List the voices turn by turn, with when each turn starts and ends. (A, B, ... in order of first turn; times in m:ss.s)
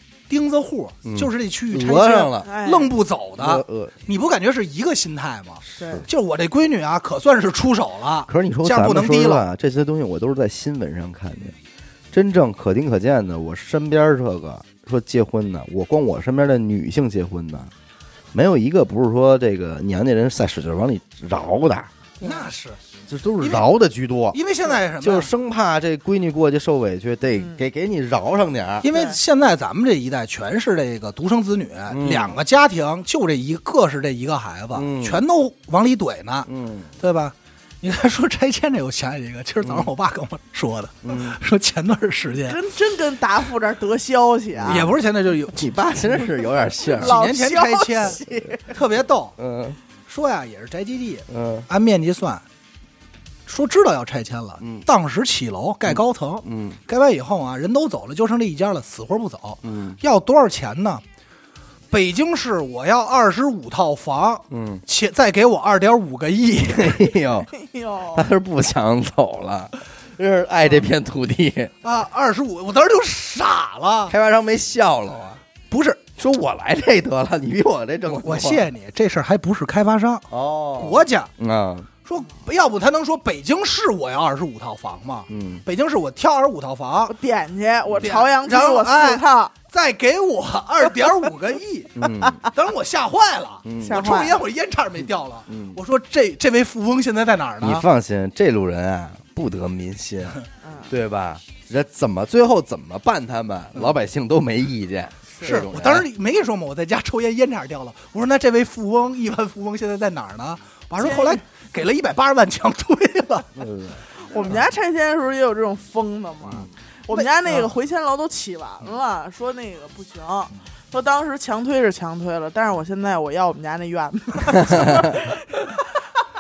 0:00.3-0:09.5 A
0:01.0-0:02.5 B
0:02.4-0:02.9 C
0:03.4-0:04.0 B
0:05.7-0:06.1 B
0:05.8-0:06.0 C
0:08.3-0:11.5 B
0:12.1-0:17.7 B
0:18.3-0:21.9 B
0:22.2-0:22.5 C
0:22.2-0:22.8 A
0:23.1-0:24.4 B
0:23.4-0:23.7 A
0:24.3-0:25.3 A
0:25.0-0:28.9 B
0:28.8-0:42.6 A
0:28.9-0:29.2 C
0:31.9-0:32.4 B
0:34.7-0:35.2 B
0:36.4-0:36.9 B
0:39.6-0:39.9 B
0:41.0-0:41.4 B
0:42.4-0:44.9 C
0:44.6-0:44.9 B
0:44.7-0:45.7 A
0:45.5-0:47.2 B
0:46.9-0:49.4 A
0:47.0-0:48.7 C
0:49.4-0:49.8 B
0:50.1-0:52.4 A
0:51.3-0:51.7 B
0:53.5-1:01.0 A
0:54.6-0:54.8 B
0:55.9-0:56.8 B
0:59.6-1:00.0 B
1:01.9-1:07.0 A
1:04.5-1:04.8 B
1:06.6-1:07.5 B
1:07.5-1:08.3 C
1:08.1-1:11.7 B
1:11.8-1:14.1 A
1:14.1-1:15.4 B
1:15.7-1:16.1 A
1:16.2-1:18.7 B
1:18.1-1:21.3 A
1:20.3-1:21.9 B
1:22.0-1:27.2 A
1:25.3-1:25.6 B
1:27.1-1:29.5 C
1:28.0-1:32.0 A
1:31.9-1:32.4 B
1:32.5-1:37.8 A
1:33.6-1:34.1 B
1:33.8-1:34.4 C
1:35.5-1:35.8 B
1:37.6-1:46.1 B
1:40.6-1:40.9 C
1:45.3-1:45.7 C
1:45.4-1:53.5 A
1:51.0-1:51.4 C
1:53.5-1:54.0 B
1:54.2-2:06.2 C
1:56.5-1:57.7 A